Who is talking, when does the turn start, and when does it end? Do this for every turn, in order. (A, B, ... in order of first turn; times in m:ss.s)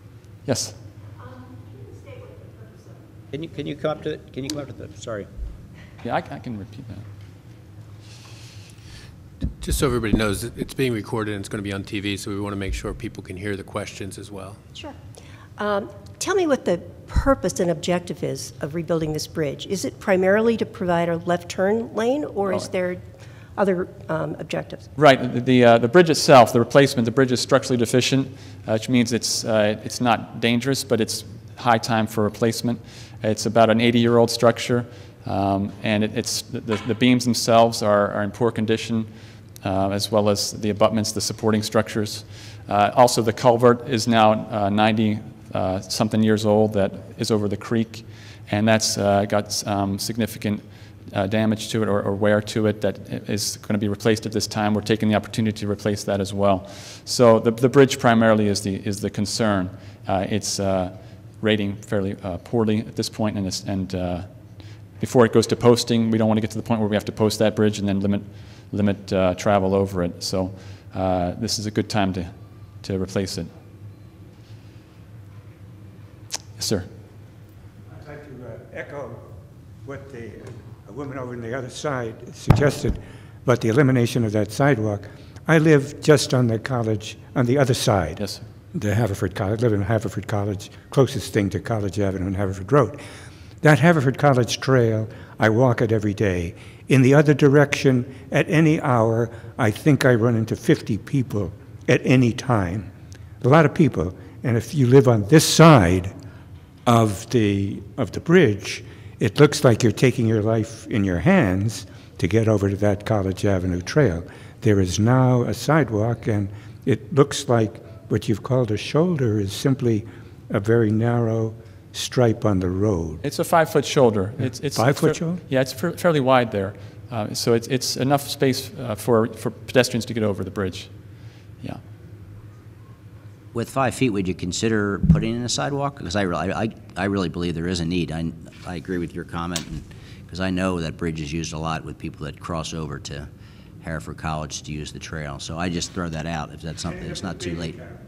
0:00.4-0:00.8 A
0:03.3-0:05.3 B
0:06.0-0:07.1 A
0:09.6-0:14.6 C
0:15.6-0:23.0 D
0:23.6-0:24.9 D
0:25.0-0:39.1 A
0:39.6-1:04.3 A
1:05.0-1:13.5 A
1:16.6-1:16.9 A
1:17.9-1:19.2 E
1:19.8-1:33.0 E
1:28.2-1:28.4 A
1:33.6-1:42.9 E
1:43.4-1:46.1 E
1:46.9-2:03.2 E
2:03.2-2:10.9 A
2:04.7-2:05.4 E
2:13.5-2:23.3 B
2:23.8-2:27.8 B
2:26.9-2:28.0 E